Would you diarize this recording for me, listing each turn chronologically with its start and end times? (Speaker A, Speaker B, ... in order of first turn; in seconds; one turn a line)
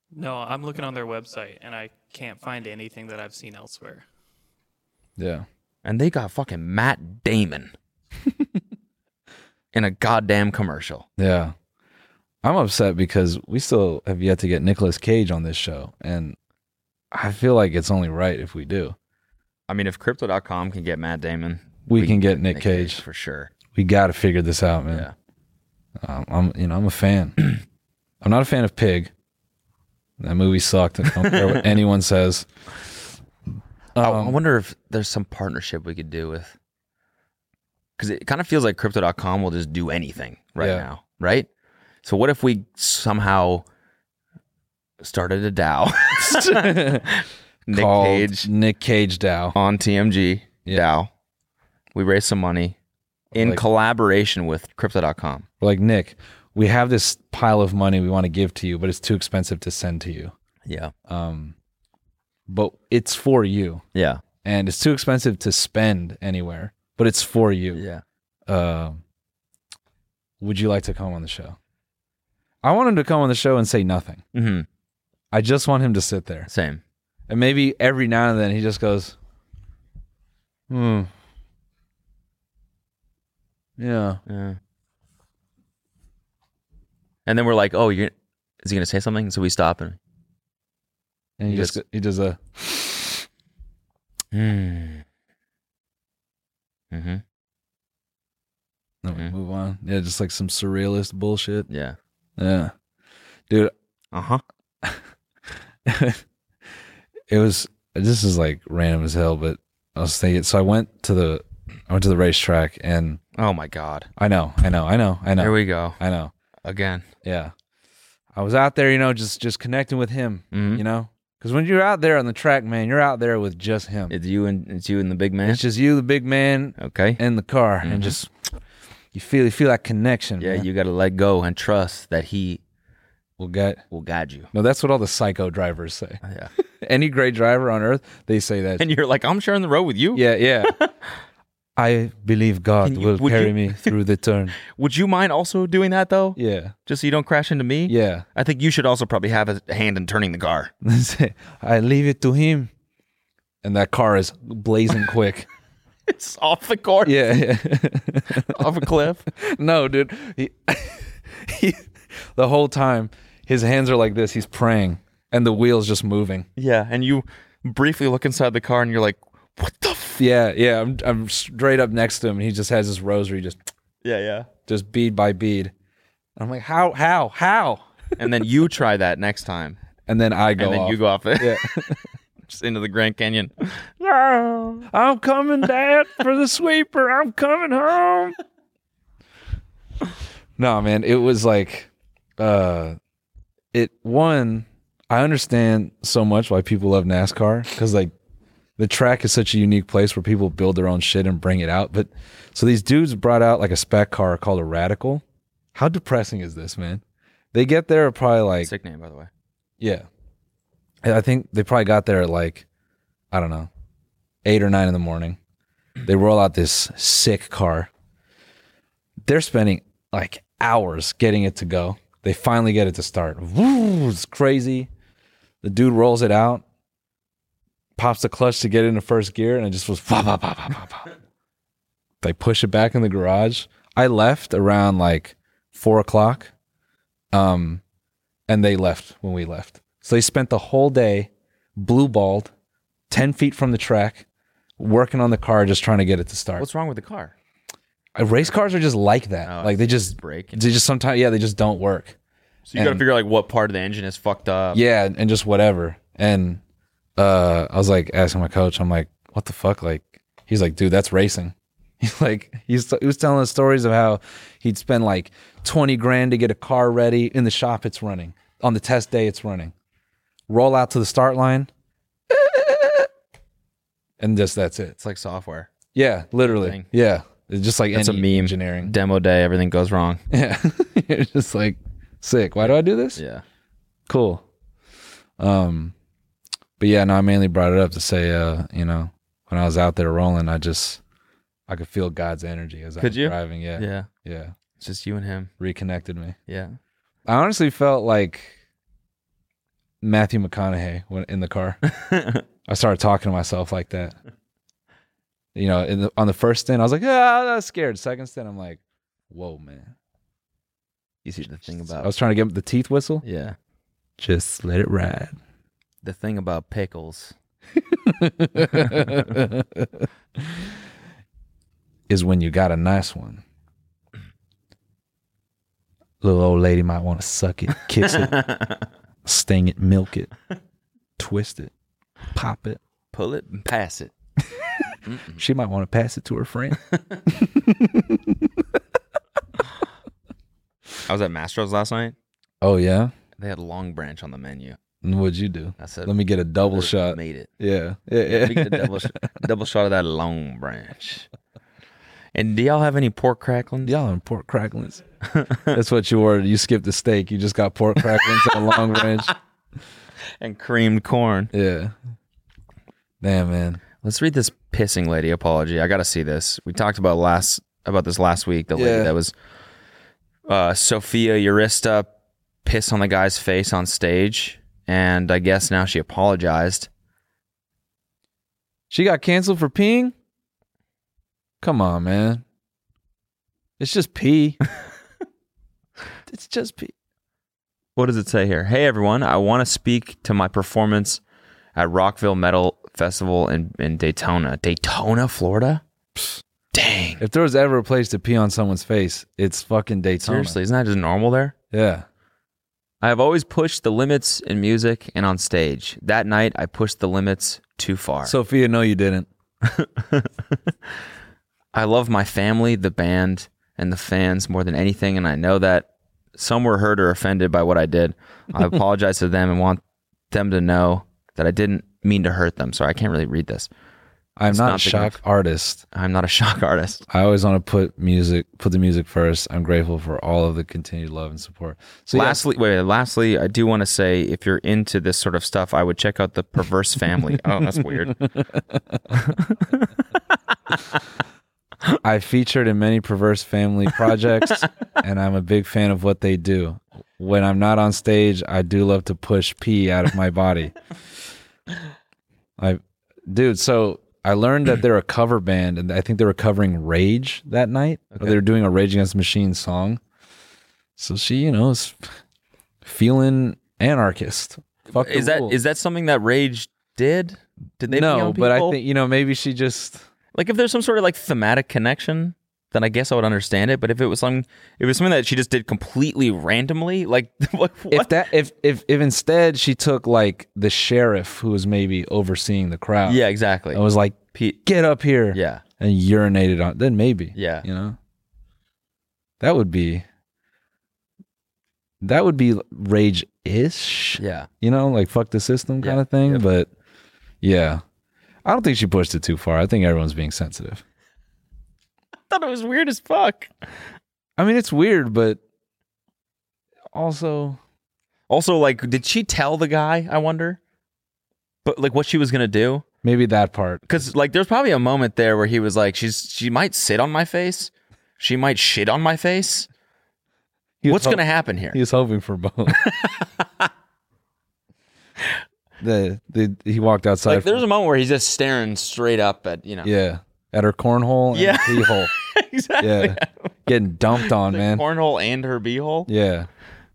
Speaker A: 0.1-4.0
Speaker B: 5.2-5.5
Speaker C: 5.8-7.7
Speaker C: 9.7-11.1
Speaker B: 11.2-11.5
Speaker B: 12.4-16.4
Speaker B: 17.1-18.9
Speaker C: 19.7-23.5
Speaker B: 21.9-23.0
Speaker B: 23.7-25.1
Speaker B: 26.0-27.4
Speaker B: 28.2-29.1
Speaker B: 30.2-32.5
Speaker C: 31.1-31.7
Speaker B: 33.9-34.4
Speaker C: 34.0-36.5
Speaker C: 38.0-41.5
Speaker B: 40.6-40.9
Speaker C: 42.0-43.6
Speaker C: 45.0-48.5
Speaker B: 46.1-47.1
Speaker B: 47.7-49.5
Speaker C: 49.5-51.1
Speaker C: 51.9-52.8
Speaker B: 53.3-53.6
Speaker C: 53.3-55.5
Speaker B: 55.6-60.3
Speaker C: 60.6-60.9
Speaker B: 61.1-61.5
Speaker B: 62.5-63.8
Speaker C: 63.9-64.2
Speaker B: 64.4-67.8
Speaker C: 67.7-68.0
Speaker B: 68.5-69.0
Speaker B: 70.4-71.6
Speaker B: 72.6-74.2
Speaker C: 74.3-74.7
Speaker B: 75.3-76.5
Speaker C: 76.5-76.8
Speaker B: 77.3-79.2
Speaker B: 80.7-81.1
Speaker B: 83.8-84.2
Speaker C: 84.3-84.6
Speaker C: 87.2-90.0
Speaker B: 91.4-93.2
Speaker C: 91.5-91.8
Speaker C: 94.3-95.0
Speaker C: 96.9-97.2
Speaker B: 99.0-101.7
Speaker C: 101.7-102.0
Speaker B: 102.4-102.7
Speaker C: 104.1-104.4
Speaker B: 105.8-106.2
Speaker B: 107.3-113.2
Speaker C: 113.4-114.1
Speaker B: 114.2-116.3
Speaker C: 115.4-116.0
Speaker C: 116.6-117.0
Speaker B: 117.2-117.5
Speaker B: 118.3-124.1
Speaker C: 120.5-120.8
Speaker C: 124.1-125.6
Speaker B: 125.4-128.3
Speaker C: 126.8-127.2
Speaker C: 127.8-128.2
Speaker B: 129.1-130.7
Speaker C: 130.4-132.6
Speaker B: 133.4-133.8
Speaker C: 133.9-134.5
Speaker B: 134.5-136.2
Speaker C: 136.2-136.5
Speaker B: 136.8-138.9
Speaker C: 138.8-140.9
Speaker B: 140.1-140.7
Speaker B: 141.8-144.6
Speaker C: 142.8-143.9
Speaker C: 144.7-150.7
Speaker B: 146.3-146.7
Speaker B: 147.9-148.2
Speaker B: 150.8-152.7
Speaker B: 153.6-155.5
Speaker C: 156.1-157.3
Speaker B: 157.0-158.7
Speaker C: 158.4-159.3
Speaker B: 159.3-166.5
Speaker C: 166.6-170.2
Speaker B: 170.2-173.6
Speaker C: 174.0-174.5
Speaker B: 174.7-175.7
Speaker B: 176.4-177.9
Speaker C: 178.2-179.8
Speaker B: 180.1-182.0
Speaker C: 180.6-181.8
Speaker C: 182.5-184.9
Speaker B: 184.9-188.3
Speaker B: 190.6-193.0
Speaker B: 193.7-198.1
Speaker B: 198.8-207.0
Speaker B: 207.5-208.7
Speaker C: 208.6-209.3
Speaker B: 209.8-210.1
Speaker B: 211.0-212.6
Speaker B: 213.3-213.7
Speaker B: 214.4-215.4
Speaker B: 216.1-217.9
Speaker B: 219.2-224.9
Speaker B: 225.6-226.6
Speaker B: 228.0-231.1
Speaker B: 232.2-236.5
Speaker B: 237.3-237.8
Speaker B: 238.5-242.5
Speaker B: 243.1-244.2
Speaker B: 244.8-246.7
Speaker C: 246.6-247.3
Speaker B: 248.2-252.2
Speaker C: 249.4-250.6
Speaker C: 252.7-254.8
Speaker B: 252.7-253.0
Speaker B: 254.7-256.6
Speaker B: 257.2-269.7
Speaker B: 270.5-271.7
Speaker B: 272.3-273.1
Speaker B: 274.2-274.9
Speaker C: 275.0-275.7
Speaker B: 275.9-278.9
Speaker C: 276.4-276.9
Speaker C: 277.9-280.2
Speaker B: 280.3-283.2
Speaker C: 282.6-283.4
Speaker B: 284.1-284.4
Speaker B: 285.4-285.9
Speaker B: 286.8-291.0
Speaker B: 291.7-294.6
Speaker C: 293.0-294.1
Speaker C: 294.8-295.5
Speaker B: 295.6-296.4
Speaker C: 296.5-296.8
Speaker B: 297.3-298.6
Speaker B: 300.0-301.8
Speaker C: 301.9-302.4
Speaker B: 302.6-304.2
Speaker B: 305.5-309.9
Speaker C: 311.2-312.1
Speaker B: 311.9-313.2
Speaker C: 313.2-313.6
Speaker B: 314.2-315.3
Speaker C: 316.0-317.3
Speaker B: 317.8-320.7
Speaker C: 318.8-319.1
Speaker B: 322.1-323.4
Speaker B: 326.2-328.5
Speaker C: 328.2-328.8
Speaker B: 329.2-330.3
Speaker B: 331.2-331.7
Speaker B: 332.3-332.8
Speaker C: 333.1-334.1
Speaker C: 335.1-335.4
Speaker B: 335.4-338.6
Speaker C: 341.1-342.1
Speaker B: 342.6-343.1
Speaker C: 343.4-344.8
Speaker B: 345.0-349.1
Speaker C: 345.8-346.1
Speaker C: 346.7-347.5
Speaker C: 348.3-351.3
Speaker C: 352.3-354.0
Speaker B: 353.8-355.0
Speaker C: 355.3-355.8
Speaker B: 355.7-359.3
Speaker C: 358.5-358.7
Speaker C: 360.4-361.5
Speaker B: 361.5-361.9
Speaker B: 363.2-363.8
Speaker C: 364.0-369.3
Speaker B: 368.7-369.1
Speaker C: 370.5-372.1
Speaker C: 372.6-376.9
Speaker B: 378.9-380.1
Speaker B: 381.6-382.4
Speaker B: 383.8-384.6
Speaker B: 386.3-386.9
Speaker C: 387.9-391.2
Speaker C: 391.8-395.8
Speaker C: 396.7-397.2
Speaker B: 397.2-400.6
Speaker C: 400.2-401.5
Speaker B: 401.7-402.1
Speaker C: 403.0-408.3
Speaker B: 408.2-409.3
Speaker C: 409.6-410.3
Speaker C: 411.7-423.7
Speaker B: 424.4-425.8
Speaker C: 424.5-425.2
Speaker C: 425.9-427.0
Speaker B: 427.1-432.4
Speaker C: 432.1-438.2
Speaker B: 438.2-439.1
Speaker C: 439.1-439.9
Speaker B: 442.0-450.7
Speaker B: 452.6-460.0
Speaker C: 458.1-458.4
Speaker B: 461.0-462.0
Speaker B: 462.8-465.6
Speaker C: 464.9-468.8
Speaker B: 467.9-470.1
Speaker C: 470.3-478.2
Speaker B: 477.9-483.2
Speaker C: 483.1-483.8
Speaker B: 483.7-488.0
Speaker C: 484.3-484.6
Speaker C: 485.3-485.6
Speaker C: 487.4-487.6
Speaker B: 489.4-490.0
Speaker B: 492.0-496.7
Speaker C: 494.2-494.5
Speaker C: 495.8-496.4
Speaker B: 497.4-497.8
Speaker B: 498.4-500.8
Speaker C: 502.3-503.5
Speaker B: 504.4-505.4
Speaker B: 506.9-507.6
Speaker C: 508.3-510.6
Speaker C: 511.6-512.8
Speaker B: 513.0-514.0
Speaker C: 513.9-519.7
Speaker B: 520.8-522.9
Speaker C: 520.9-521.8
Speaker C: 522.8-523.2
Speaker B: 525.8-527.6
Speaker C: 527.2-529.9
Speaker B: 529.8-532.1
Speaker C: 531.3-533.5
Speaker B: 532.8-534.8
Speaker C: 534.1-536.1
Speaker B: 536.1-536.5